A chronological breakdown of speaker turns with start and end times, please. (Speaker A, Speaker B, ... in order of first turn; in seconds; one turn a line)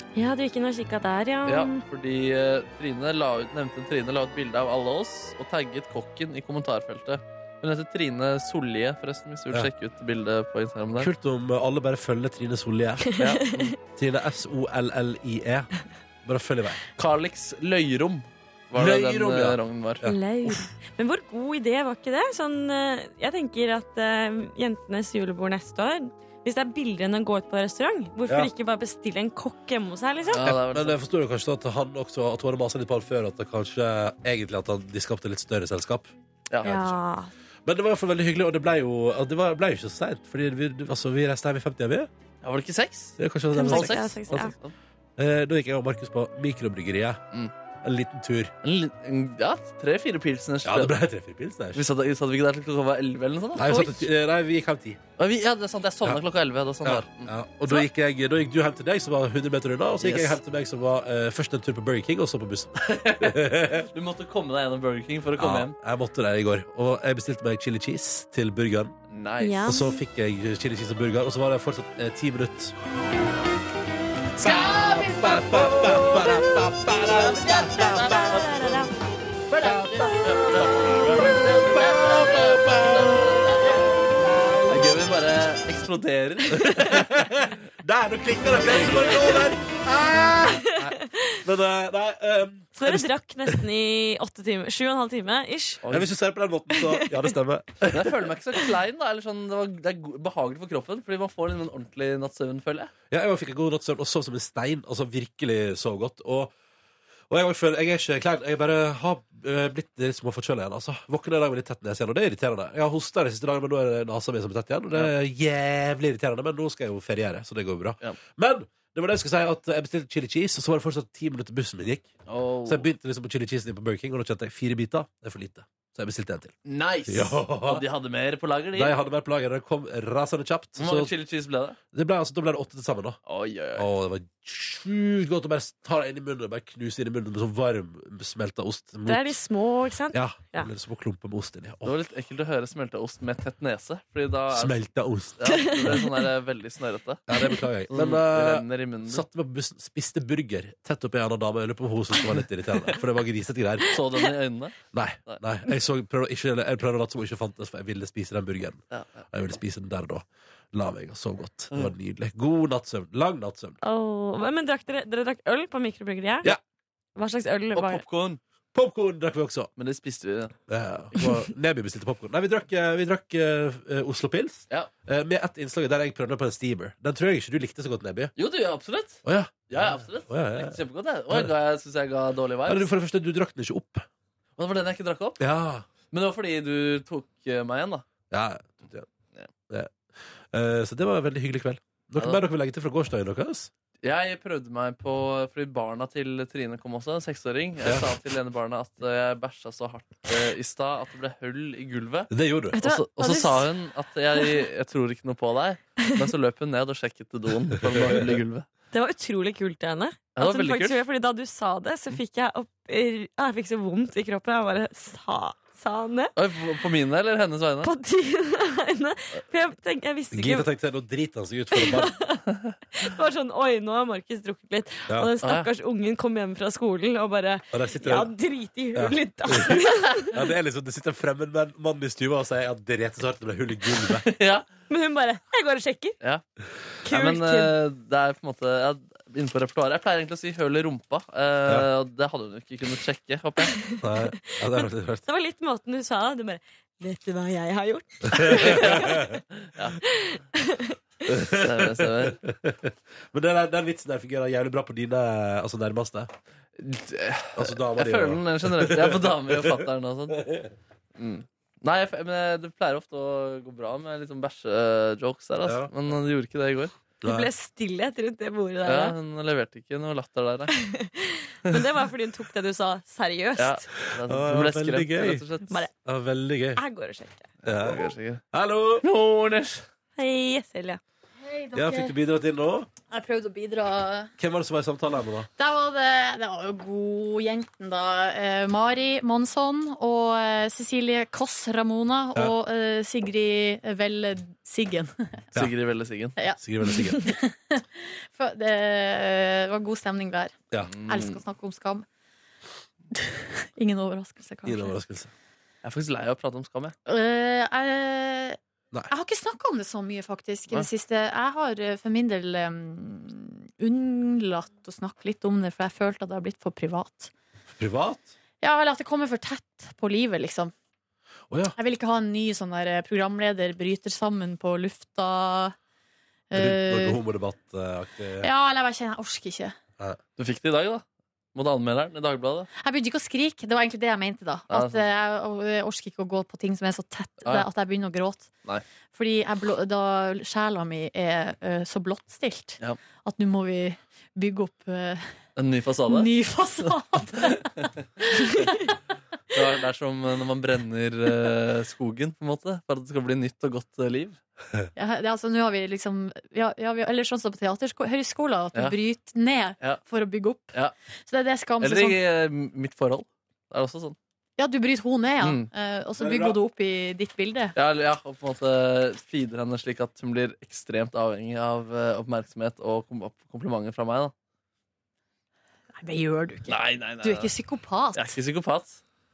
Speaker A: 0.1-1.8
Speaker B: 1.4-11.1
Speaker C: 11.0-13.2
Speaker A: 13.1-13.8
Speaker B: 13.2-13.7
Speaker C: 13.8-15.7
Speaker C: 16.2-16.8
Speaker B: 17.0-20.1
Speaker C: 18.8-20.5
Speaker A: 20.0-30.4
Speaker B: 30.3-31.0
Speaker C: 30.4-36.1
Speaker B: 36.5-36.9
Speaker A: 36.6-37.3
Speaker C: 36.6-36.9
Speaker C: 37.7-42.1
Speaker B: 42.4-44.7
Speaker C: 43.2-44.2
Speaker A: 43.5-44.5
Speaker C: 45.2-47.2
Speaker C: 47.8-48.5
Speaker B: 48.6-51.0
Speaker C: 50.6-51.9
Speaker B: 51.8-54.0
Speaker C: 53.5-55.0
Speaker B: 55.2-57.3
Speaker C: 56.8-63.9
Speaker B: 60.0-60.4
Speaker B: 62.8-65.7
Speaker C: 65.4-68.9
Speaker B: 69.1-69.8
Speaker A: 69.4-70.0
Speaker C: 69.7-72.8
Speaker C: 74.4-78.9
Speaker B: 74.4-76.4
Speaker B: 76.9-78.5
Speaker A: 77.2-78.9
Speaker C: 79.5-84.8
Speaker A: 79.9-80.7
Speaker B: 80.0-83.5
Speaker B: 84.7-87.1
Speaker C: 86.6-93.5
Speaker B: 88.6-89.4
Speaker A: 90.6-91.4
Speaker A: 92.8-95.8
Speaker B: 95.8-96.1
Speaker C: 95.9-98.3
Speaker A: 96.7-97.3
Speaker B: 97.9-102.9
Speaker C: 103.1-106.5
Speaker C: 107.3-122.1
Speaker B: 122.3-122.9
Speaker C: 122.7-126.5
Speaker B: 126.7-128.9
Speaker C: 127.1-127.8
Speaker C: 128.7-131.1
Speaker B: 130.8-131.8
Speaker C: 131.9-133.2
Speaker B: 133.3-133.9
Speaker C: 133.8-139.4
Speaker A: 139.1-140.7
Speaker C: 140.1-142.0
Speaker B: 141.8-144.8
Speaker C: 144.5-146.0
Speaker B: 145.4-147.2
Speaker A: 145.5-146.3
Speaker C: 147.3-154.0
Speaker B: 147.9-149.3
Speaker B: 153.9-155.4
Speaker C: 154.9-163.8
Speaker B: 158.9-159.2
Speaker A: 163.8-166.6
Speaker A: 167.2-168.0
Speaker B: 167.7-168.4
Speaker C: 168.7-169.7
Speaker B: 169.8-170.6
Speaker C: 170.7-178.3
Speaker B: 178.4-182.9
Speaker C: 179.2-180.8
Speaker C: 182.7-184.1
Speaker B: 184.6-185.4
Speaker C: 185.4-185.9
Speaker B: 186.1-188.1
Speaker C: 188.3-189.1
Speaker C: 189.7-193.7
Speaker B: 194.0-208.7
Speaker C: 197.8-198.1
Speaker C: 202.3-202.8
Speaker A: 202.8-203.6
Speaker D: 202.8-203.5
Speaker C: 207.9-208.3
Speaker A: 208.9-216.3
Speaker B: 210.3-211.0
Speaker B: 216.4-217.9
Speaker A: 217.8-220.7
Speaker C: 220.3-222.2
Speaker A: 221.7-222.4
Speaker A: 222.9-230.4
Speaker B: 225.4-225.7
Speaker C: 227.7-228.3
Speaker C: 228.9-234.3
Speaker B: 234.2-234.7
Speaker A: 234.9-236.2
Speaker A: 237.0-237.8
Speaker B: 237.1-243.8
Speaker A: 243.7-249.3
Speaker C: 244.0-245.2
Speaker C: 248.3-249.3
Speaker B: 248.6-250.0
Speaker A: 250.0-251.0
Speaker C: 251.3-256.3
Speaker B: 251.5-252.4
Speaker B: 256.8-260.4
Speaker C: 257.6-260.7
Speaker B: 261.2-266.9
Speaker C: 265.6-265.9
Speaker C: 267.2-267.5
Speaker A: 267.2-269.2
Speaker B: 268.9-270.7
Speaker A: 270.7-273.9
Speaker B: 273.6-275.9
Speaker C: 274.2-275.4
Speaker A: 275.7-275.9
Speaker C: 276.1-276.8
Speaker A: 276.8-277.5
Speaker C: 277.6-279.1
Speaker B: 277.7-278.4
Speaker B: 279.0-279.9
Speaker A: 280.2-281.0
Speaker D: 281.4-282.1
Speaker C: 281.7-282.9
Speaker D: 283.1-284.3
Speaker C: 284.4-285.5
Speaker D: 285.6-295.4
Speaker B: 295.5-296.4
Speaker D: 296.4-302.1
Speaker C: 296.6-297.2
Speaker B: 300.9-301.4
Speaker D: 303.1-305.0
Speaker C: 304.6-305.3
Speaker B: 305.8-306.9
Speaker D: 307.1-308.6
Speaker D: 309.1-317.3
Speaker C: 317.7-318.3
Speaker D: 318.6-320.7
Speaker C: 321.5-321.8
Speaker D: 321.8-325.8
Speaker D: 326.5-327.2
Speaker C: 326.5-328.5
Speaker D: 328.4-329.8
Speaker B: 330.4-331.0
Speaker B: 331.6-332.7
Speaker D: 332.8-338.5
Speaker B: 334.7-335.1
Speaker D: 339.1-345.3
Speaker B: 345.6-346.3
Speaker D: 346.1-347.9
Speaker B: 347.4-347.9
Speaker B: 349.5-354.4
Speaker D: 355.0-360.7
Speaker D: 361.3-362.2
Speaker B: 361.8-364.2
Speaker D: 364.6-367.8
Speaker B: 365.4-365.7
Speaker C: 366.2-366.6
Speaker B: 367.8-374.3
Speaker D: 376.0-378.4
Speaker B: 376.7-377.5
Speaker B: 378.1-379.0